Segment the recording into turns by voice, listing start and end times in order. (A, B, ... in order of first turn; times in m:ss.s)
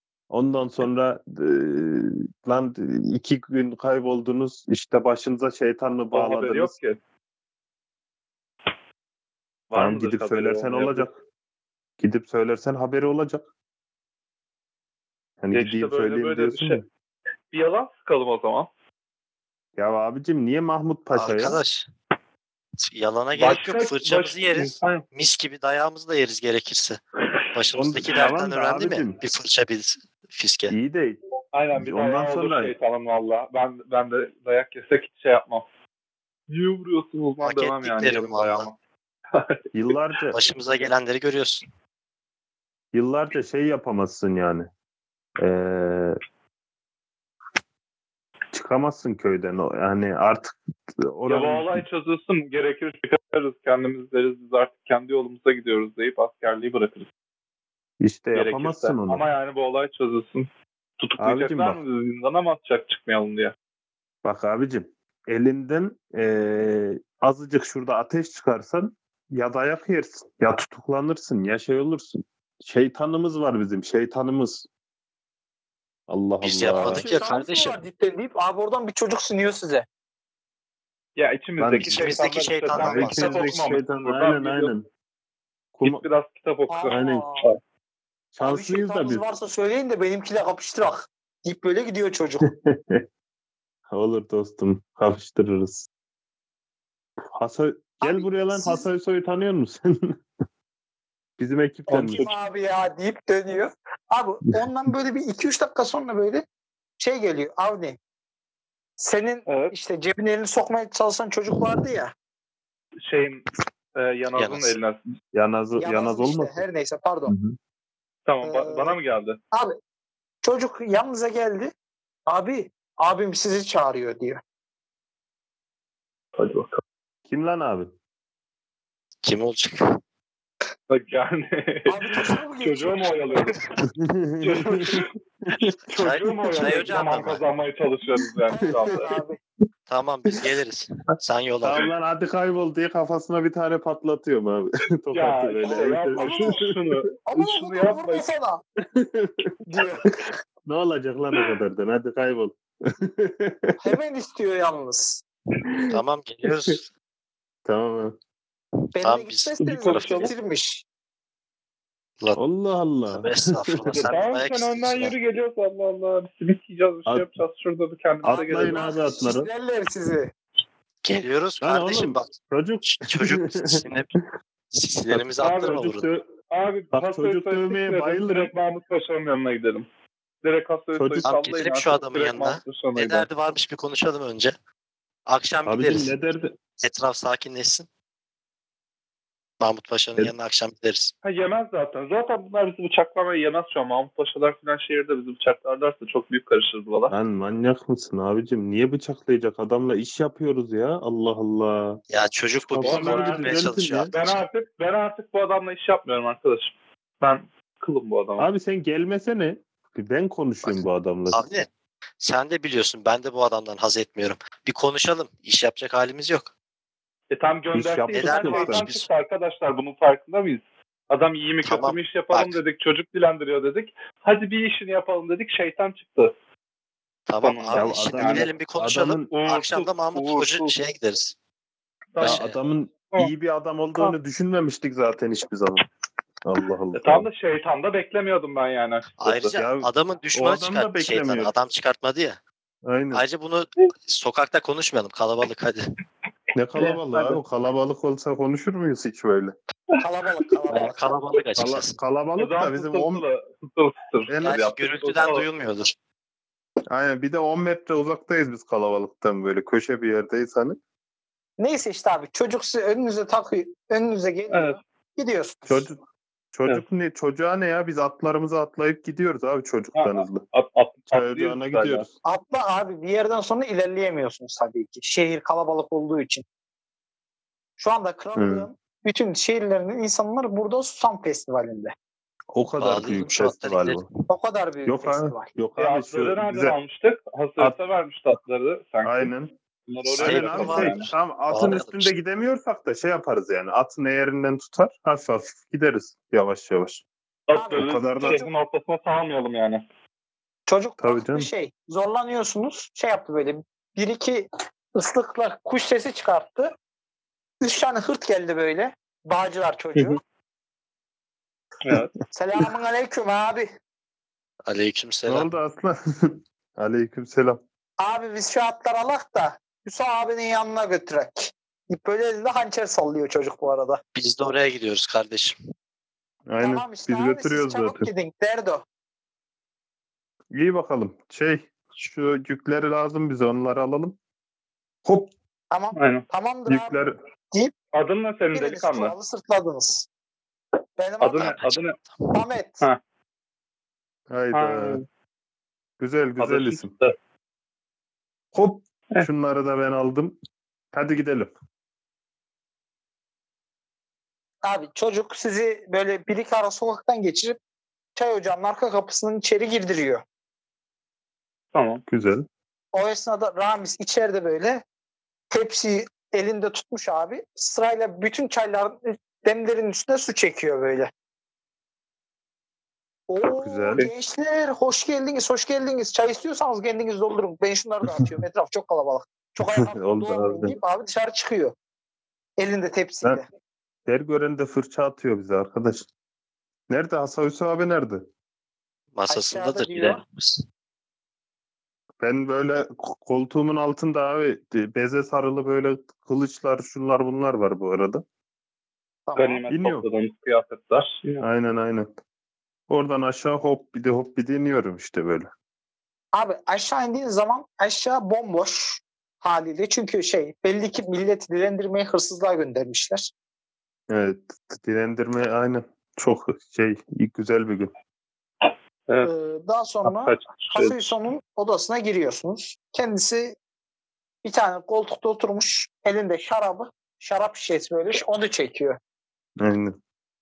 0:00.3-0:06.7 A
0:06.1-0:07.0 B
0:09.7-0:11.1 B
0:09.7-0:11.2 A
0:12.0-0:13.5 A
0:15.4-0:16.8 A
0:15.5-0:16.8 B
0:17.5-0:18.7 B
0:19.8-0:21.6 A
0:21.1-0:21.9 C
0:22.8-0:27.0 C
0:23.4-0:25.1 B
0:27.5-0:30.8 C
0:27.8-0:29.2 A
0:30.7-0:31.2 A
0:31.5-0:35.7 B
0:31.8-0:32.8 A
0:36.5-0:38.8 B
0:37.4-0:38.7 C
0:39.3-0:39.6 B
0:39.7-0:40.4 A
0:40.3-0:41.6 C
0:42.9-0:44.7 A
0:45.4-0:46.2 A
0:48.5-0:51.8 A
0:51.3-0:57.1 B
0:58.0-0:59.2 A
0:58.4-1:00.5 B
1:01.0-1:03.6 B
1:01.2-1:01.8 A
1:04.2-1:14.7 A
1:16.1-1:17.1 A
1:16.4-1:17.8 C
1:16.8-1:19.9 D
1:21.2-1:24.7 B
1:21.6-1:24.9 A
1:21.9-1:23.6 C
1:25.8-1:26.0 A
1:25.8-1:27.6 B
1:26.7-1:27.5 D
1:26.9-1:27.2 A
1:28.3-1:29.2 A
1:28.4-1:32.5 D
1:32.5-1:33.0 A
1:33.9-1:35.9 A
1:37.4-1:40.2 A
1:38.0-1:38.9 D
1:41.4-1:42.3 A
1:41.9-1:42.4 B
1:41.9-1:46.4 D
1:47.0-1:48.0 D
1:49.0-1:52.1 D
1:49.5-1:49.7 B
1:53.0-1:55.0 B
1:54.4-1:54.8 C
1:55.3-1:56.6 A
1:55.8-1:57.3 D
1:57.3-1:57.6 A
1:58.3-1:59.4 B
1:58.4-1:59.0 D
2:00.4-2:01.7 D
2:02.3-2:04.4 D
2:06.4-2:06.8 B
2:07.3-2:07.9 A
2:09.2-2:09.8 C
2:10.9-2:13.6 B
2:11.9-2:13.6 D
2:14.0-2:16.8 A
2:14.4-2:15.1 B
2:15.9-2:17.4 C
2:16.0-2:19.1 B
2:18.5-2:19.4 D
2:18.8-2:19.1 A
2:19.9-2:21.8 C
2:21.6-2:26.8 A
2:25.1-2:28.2 B
2:25.6-2:26.6 D
2:27.3-2:28.6 D
2:28.9-2:29.5 A
2:29.6-2:30.2 D
2:30.7-2:33.8 A
2:33.8-2:35.2 D
2:35.9-2:36.9 C
2:37.7-2:38.2 A
2:39.0-2:40.8 D
2:39.0-2:40.4 C
2:39.6-2:40.3 B
2:42.4-2:44.1 A
2:43.1-2:45.2 C
2:44.0-2:48.8 B
2:48.2-2:49.5 A
2:48.3-2:50.3 D
2:51.0-2:54.2 C
2:51.6-2:53.8 A
2:54.7-2:56.1 C
2:55.1-2:56.3 A
2:55.4-2:55.8 B
2:56.5-2:59.9 B
2:56.9-2:58.5 A
3:00.4-3:03.3 B
3:01.0-3:01.3 A
3:01.2-3:04.6 C
3:05.3-3:06.1 C
3:05.7-3:06.5 A
3:06.8-3:07.9 C
3:09.6-3:11.1 C
3:11.2-3:17.2 B
3:17.1-3:22.0 A
3:22.1-3:24.4 C
3:22.6-3:24.1 A
3:22.8-3:28.5 B
3:28.4-3:31.4 A
3:30.6-3:31.7 C
3:32.2-3:36.5 C
3:37.3-3:46.3 B
3:37.7-3:38.9 A
3:38.2-3:39.1 C
3:41.6-3:42.6 C
3:47.3-3:51.3 C
3:47.4-3:48.5 B
3:47.7-3:49.3 A
3:49.3-3:50.8 B
3:52.1-3:52.4 B
3:52.2-3:52.6 C
3:52.2-3:55.8 A
3:56.4-3:57.3 A
3:57.0-3:59.6 B
3:59.2-4:02.4 C
3:59.6-4:01.5 A
4:02.9-4:03.2 A
4:03.1-4:05.9 C
4:06.6-4:09.5 A
4:06.8-4:07.4 B
4:10.0-4:11.0 D
4:10.7-4:12.0 C
4:11.6-4:13.2 A
4:12.4-4:15.5 B
4:14.3-4:14.6 A
4:14.4-4:15.9 C
4:16.9-4:20.8 A
4:21.6-4:25.9 D
4:24.5-4:24.8 B
4:25.7-4:26.0 A
4:26.5-4:30.4 A
4:30.0-4:32.1 B
4:31.1-4:32.1 A
4:32.2-4:36.4 D
4:37.8-4:41.9 D
4:38.4-4:38.7 A
4:42.5-4:44.1 A
4:42.8-4:44.0 C
4:44.3-4:45.5 D
4:44.9-4:46.8 A
4:45.8-4:49.3 B
4:49.0-4:49.5 A
4:49.9-4:51.1 B
4:50.1-4:57.0 A
4:50.2-4:52.1 C
4:57.5-4:59.8 B
4:57.6-4:58.5 D
4:57.8-4:58.4 A
5:00.7-5:06.7 D
5:01.0-5:01.5 A
5:07.6-5:10.2 D
5:11.8-5:12.1 B
5:12.3-5:13.7 D
5:14.7-5:15.5 C
5:15.3-5:17.6 A
5:18.0-5:24.0 D
5:24.2-5:25.6 C
5:26.5-5:28.1 A
5:26.6-5:28.8 D
5:30.5-5:34.2 A
5:35.0-5:35.3 A
5:35.7-5:37.7 D
5:35.9-5:36.2 B
5:36.7-5:37.1 A
5:37.9-5:39.2 B
5:38.5-5:40.1 D
5:41.0-5:41.6 D
5:41.2-5:42.0 B
5:41.4-5:41.8 C
5:42.3-5:42.9 D
5:44.3-5:45.0 A
5:44.5-5:45.0 B
5:46.0-5:46.9 A
5:46.4-5:47.2 B
5:48.5-5:50.4 A
5:50.9-5:51.5 A
5:54.6-5:57.6 D
5:58.2-6:00.2 D
6:01.7-6:02.0 B
6:02.1-6:02.5 A
6:02.9-6:04.8 D
6:05.5-6:11.1 D
6:13.3-6:21.7 D
6:13.6-6:14.1 A
6:19.8-6:20.8 A
6:22.6-6:23.4 D
6:24.1-6:26.1 A
6:26.9-6:28.2 A
6:29.1-6:30.6 C
6:29.3-6:30.2 D
6:32.2-6:38.2 A
6:39.3-6:39.6 D
6:39.4-6:41.5 B
6:39.7-6:40.0 A
6:41.4-6:42.1 A
6:42.9-6:45.5 A
6:46.3-6:53.3 D
6:54.1-6:57.9 A
6:59.2-7:03.6 D
7:00.0-7:01.2 B
7:04.4-7:09.0 D
7:09.6-7:10.0 A